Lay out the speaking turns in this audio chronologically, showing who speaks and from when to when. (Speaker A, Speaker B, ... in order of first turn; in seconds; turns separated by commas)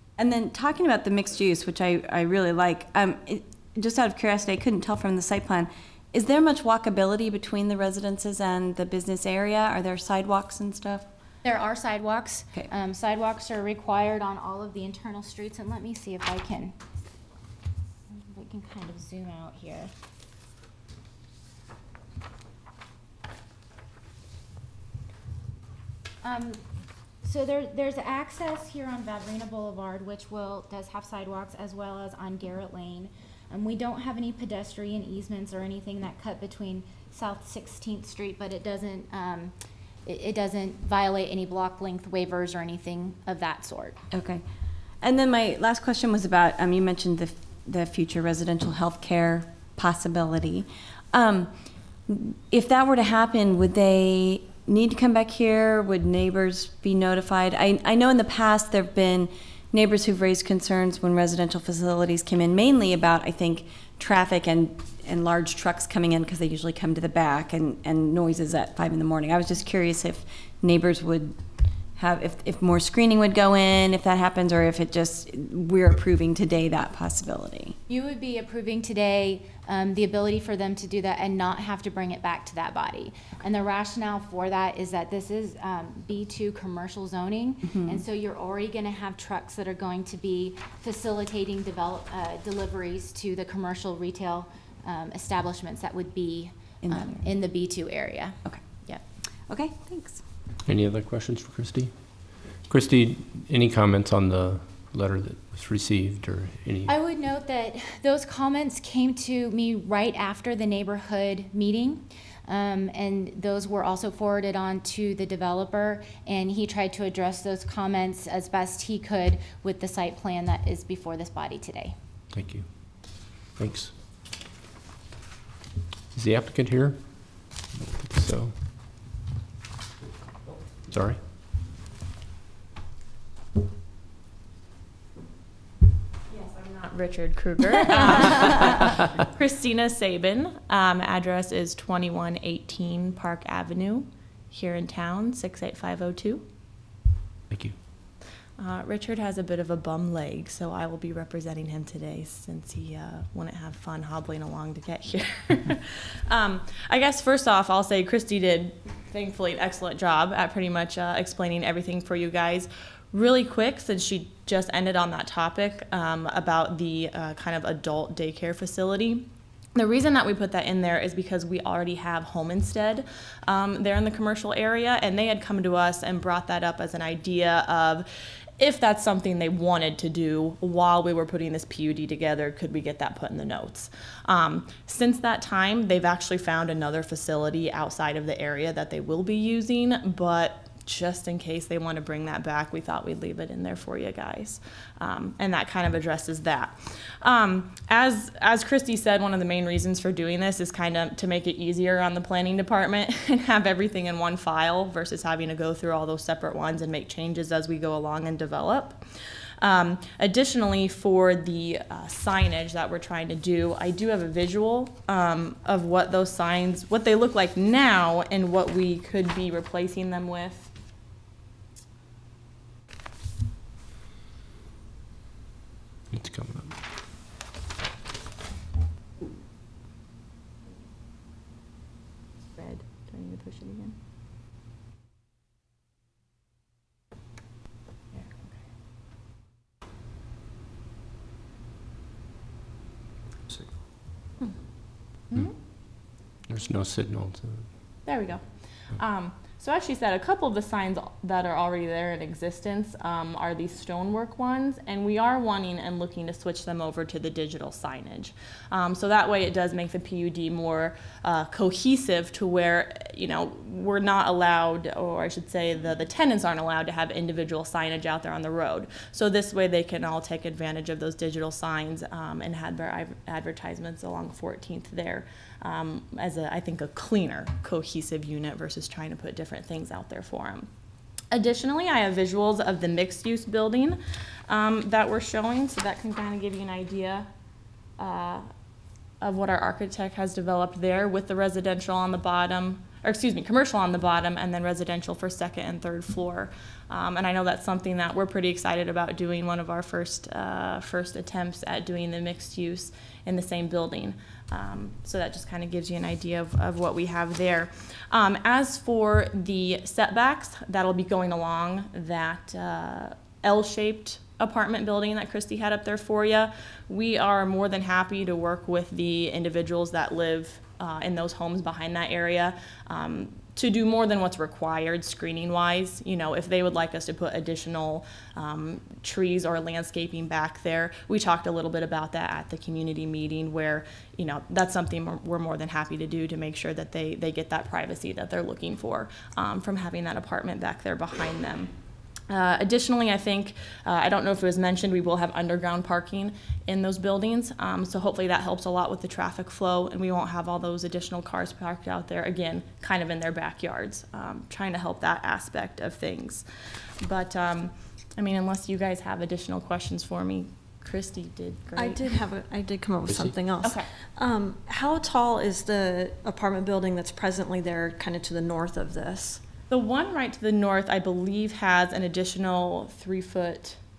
Speaker A: 0.2-11.1, Speaker B: 11.4-16.8, Speaker B: 18.1-19.9, Speaker B: 26.2-26.6, Speaker B: 27.2-39.5, Speaker B: 40.0-44.0, Speaker A: 44.1-44.4, Speaker A: 45.0-51.5, Speaker A: 52.1-71.4, Speaker A: 72.0-77.8, Speaker B: 77.9-99.0, Speaker A: 87.7-88.0, Speaker A: 96.8-97.3, Speaker A: 99.5-100.2, Speaker C: 100.7-106.9, Speaker B: 106.9-122.0, Speaker C: 122.3-124.0, Speaker C: 126.1-128.8, Speaker C: 130.9-131.2, Speaker D: 136.3-146.5, Speaker C: 147.5-147.8, Speaker D: 148.6-178.1, Speaker D: 178.6-209.0, Speaker D: 209.6-220.7, Speaker C: 226.1-226.8, Speaker D: 232.6-233.9, Speaker D: 238.1-238.5, Speaker D: 245.3-245.6, Speaker C: 245.3-245.8, Speaker C: 246.5-247.7, Speaker D: 248.1-280.7, Speaker D: 281.3-287.3, Speaker D: 288.0-288.5, Speaker D: 289.2-341.7, Speaker D: 342.3-356.4, Speaker D: 357.0-362.2, Speaker E: 361.7-369.4, Speaker C: 363.1-363.4, Speaker D: 363.6-363.9, Speaker D: 369.7-373.8